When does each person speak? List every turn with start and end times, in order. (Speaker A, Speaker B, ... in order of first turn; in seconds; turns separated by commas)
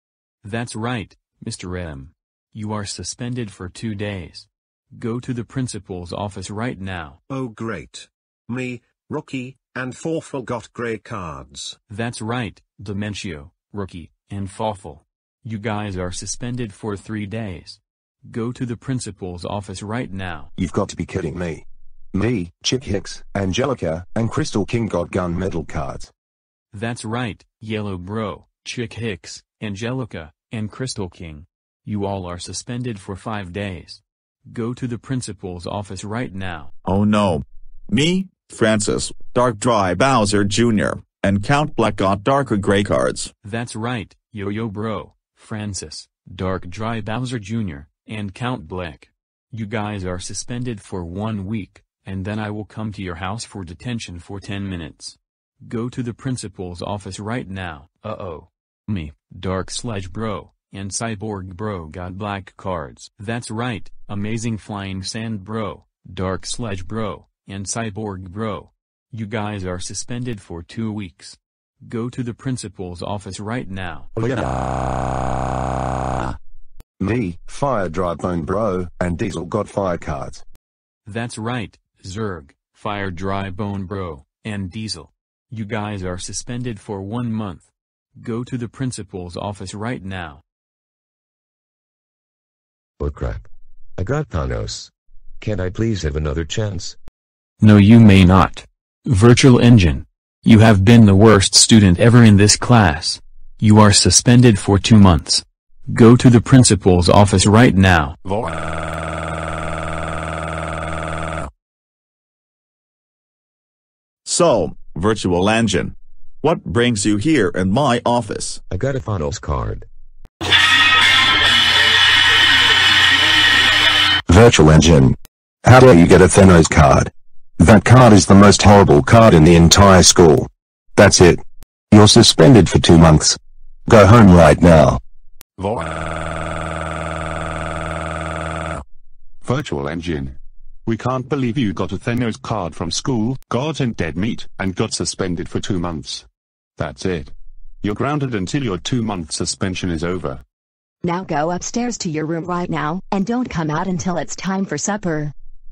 Speaker A: 0.4-7.2, Speaker B: 7.3-11.8, Speaker A: 11.9-20.5, Speaker C: 20.6-21.6, Speaker C: 22.1-26.1, Speaker A: 26.7-36.7, Speaker D: 36.9-43.3, Speaker A: 43.4-74.1, Speaker E: 74.2-74.6, Speaker C: 77.0-80.4, Speaker A: 81.0-90.4, Speaker F: 93.0-97.0, Speaker A: 97.6-108.2, Speaker D: 114.2-118.6, Speaker F: 118.7-119.9, Speaker C: 124.3-135.0, Speaker E: 139.4-146.2, Speaker E: 146.8-150.4, Speaker G: 151.0-155.3